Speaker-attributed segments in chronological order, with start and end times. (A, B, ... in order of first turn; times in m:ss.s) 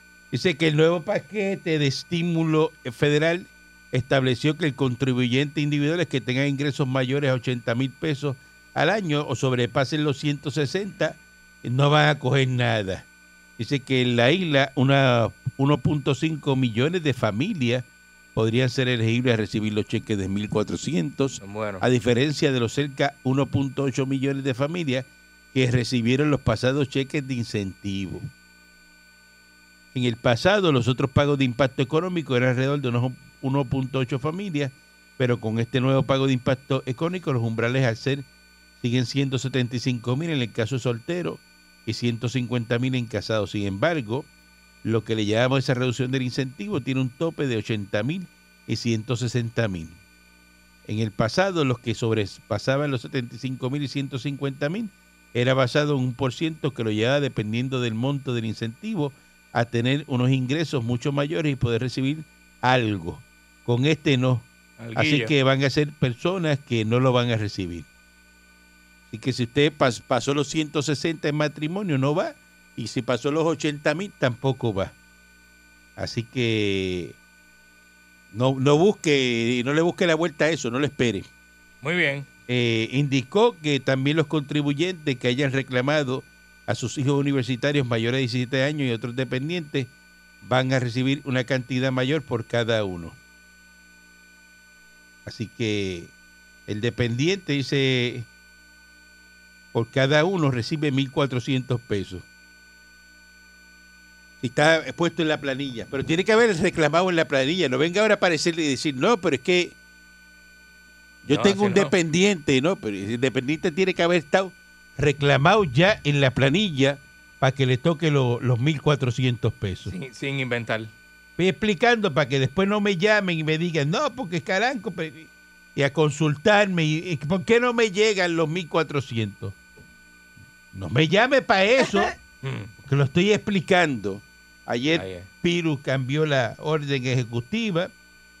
0:00.3-0:13.0 A
0:13.6-0:28.3 A
0:21.4-0:21.8 B
0:29.9-0:38.2 A
0:38.8-0:44.3 A
0:44.8-0:50.0 A
0:50.8-1:07.9 A
1:04.8-1:05.3 B
1:09.1-1:14.9 A
1:16.0-1:17.2 A
1:18.3-1:21.2 A
1:21.8-1:22.3 B
1:22.5-1:29.9 A
1:30.4-1:33.2 A
1:35.2-1:36.1 A
1:36.7-1:38.3 A
1:39.7-1:42.2 A
1:44.4-1:49.8 A
1:51.2-1:59.9 A
1:51.3-1:51.9 B
1:59.9-2:00.9 B
2:01.4-2:09.6 A
2:10.7-2:12.1 A
2:12.4-2:12.7 B
2:12.8-2:17.9 A
2:14.9-2:15.3 B